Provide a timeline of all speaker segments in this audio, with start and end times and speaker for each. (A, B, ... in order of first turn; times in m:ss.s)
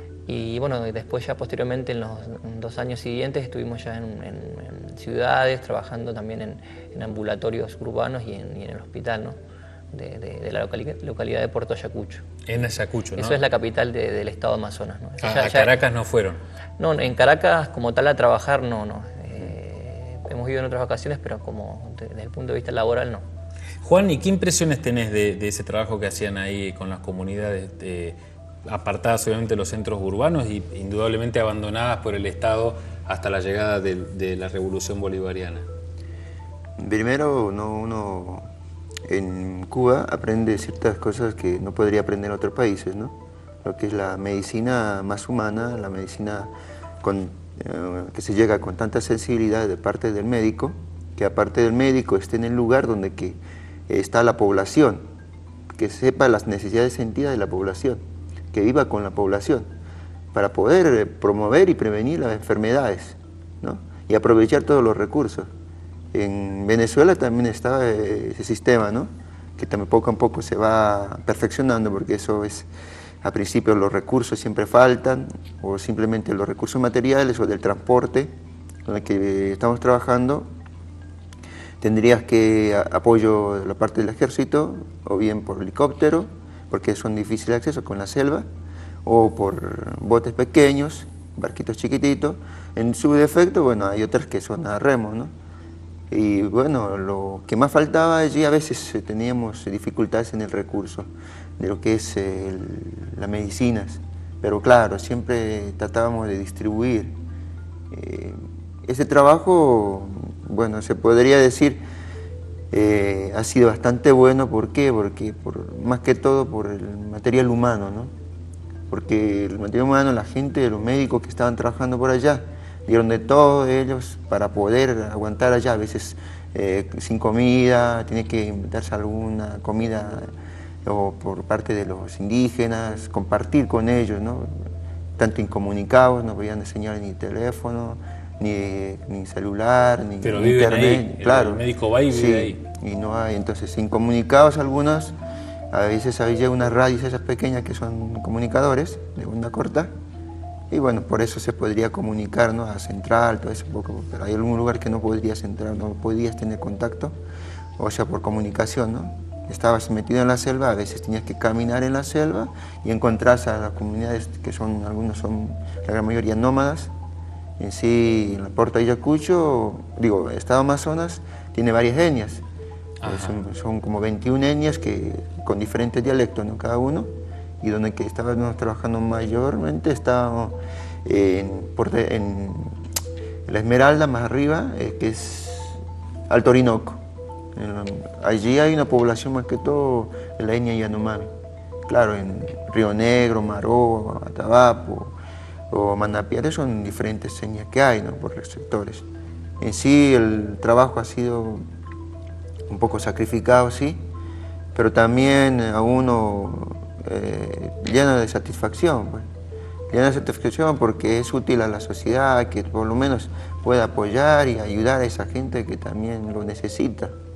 0:00.3-0:09.4 A
0:09.9-0:12.2 A
0:12.5-0:13.4 B
0:13.2-0:15.8 A
0:15.2-0:16.4 B
0:16.8-0:23.2 A
0:23.8-0:35.7 B
0:36.8-0:38.5 C
0:39.1-0:53.4 C
0:53.9-0:55.0 C
0:55.7-0:59.7 C
1:00.3-1:05.5 C
1:06.1-1:12.7 C
1:13.2-1:18.3 C
1:18.8-1:20.5 C
1:21.8-1:28.5 C
1:29.0-1:35.3 C
1:36.1-1:47.2 C
1:47.9-1:51.8 C
1:52.7-1:58.1 C
1:58.9-2:10.3 C
2:10.8-2:14.6 C
2:15.2-2:25.2 C
2:20.2-2:22.6 B
2:25.7-2:29.9 C
2:30.7-2:37.2 C
2:37.8-2:46.9 C
2:47.6-2:52.4 C
2:53.0-2:53.4 B
2:53.0-2:57.1 C
2:57.6-3:02.8 C
3:03.5-3:05.8 C
3:06.3-3:07.0 C
3:07.6-3:11.3 C
3:11.9-3:15.2 C
3:15.7-3:19.0 C
3:19.6-3:21.6 C
3:22.7-3:24.0 C
3:24.8-3:29.3 C
3:29.9-3:37.1 C